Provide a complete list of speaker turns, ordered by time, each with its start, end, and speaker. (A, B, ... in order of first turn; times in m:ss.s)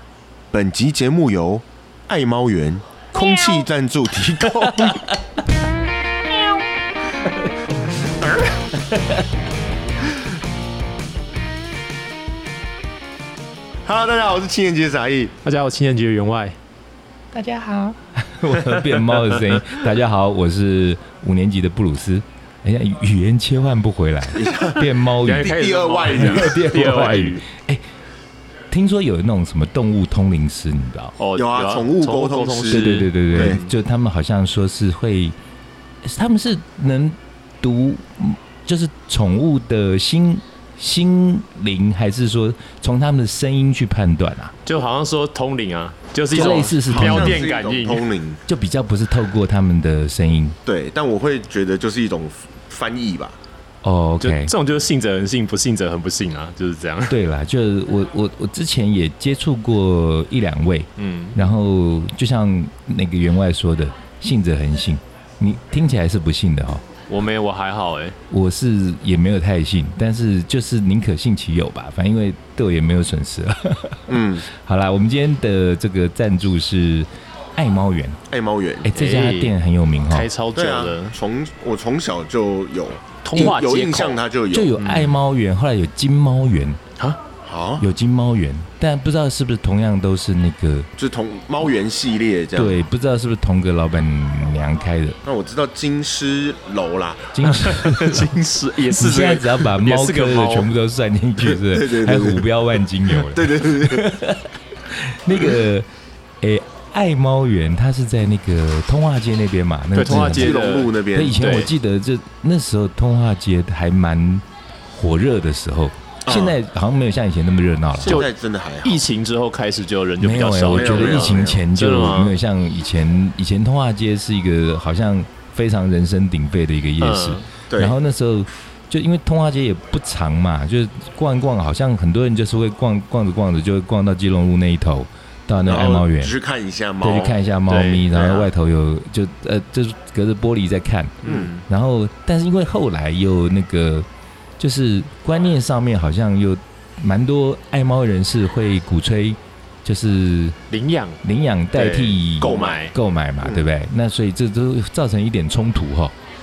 0:00.5-0:05.0 A
0:03.2-0:03.5 B
0:04.6-0:05.1 B
0:08.2-0:08.7 A
0:13.8-0:15.3 A
0:15.4-0:16.6 C
0:17.3-0:27.8 B
0:24.3-0:27.2 A
0:25.2-0:27.4 C
0:28.7-0:31.2 B
0:31.2-0:33.7 C
0:31.4-0:33.6 A
0:32.7-0:35.4 B
0:36.0-0:44.5 B
0:44.6-0:48.1 C
0:46.3-0:47.4 B
0:46.4-0:48.4 A
0:48.4-0:50.6 B
0:50.6-0:53.4 A
0:53.8-0:54.5 B
0:54.2-0:57.2 C
0:57.1-1:06.8 B
1:01.0-1:01.4 C
1:07.1-1:08.2 C
1:08.3-1:18.2 B
1:14.1-1:14.4 A
1:18.3-1:18.9 A
1:18.8-1:20.3 B
1:18.9-1:19.5 C
1:20.1-1:21.1 C
1:20.5-1:24.7 A
1:23.2-1:24.2 C
1:24.5-1:26.8 B
1:24.8-1:25.2 C
1:27.4-1:27.9 A
1:27.8-1:30.9 B
1:31.0-1:32.8 A
1:32.5-1:35.2 B
1:35.2-1:37.3 A
1:37.3-1:38.3 B
1:37.4-1:40.7 C
1:38.9-1:45.9 B
1:41.4-1:44.0 A
1:45.3-1:45.6 A
1:46.4-1:50.6 B
1:49.9-1:51.7 C
1:50.0-1:51.4 A
1:51.1-1:58.2 B
1:56.2-1:56.6 A
1:58.0-1:59.0 A
1:58.0-1:58.3 C
1:58.8-2:02.4 C
2:00.2-2:16.3 B
2:00.7-2:01.6 A
2:07.0-2:07.5 C
2:07.7-2:08.0 A
2:15.6-2:17.3 A
2:17.0-2:24.1 B
2:17.1-2:18.2 C
2:18.1-2:18.5 A
2:21.2-2:21.6 C
2:21.2-2:21.5 A
2:24.6-2:30.6 B
2:30.7-2:31.2 C
2:31.2-2:36.1 B
2:31.7-2:32.9 C
2:32.4-2:32.9 A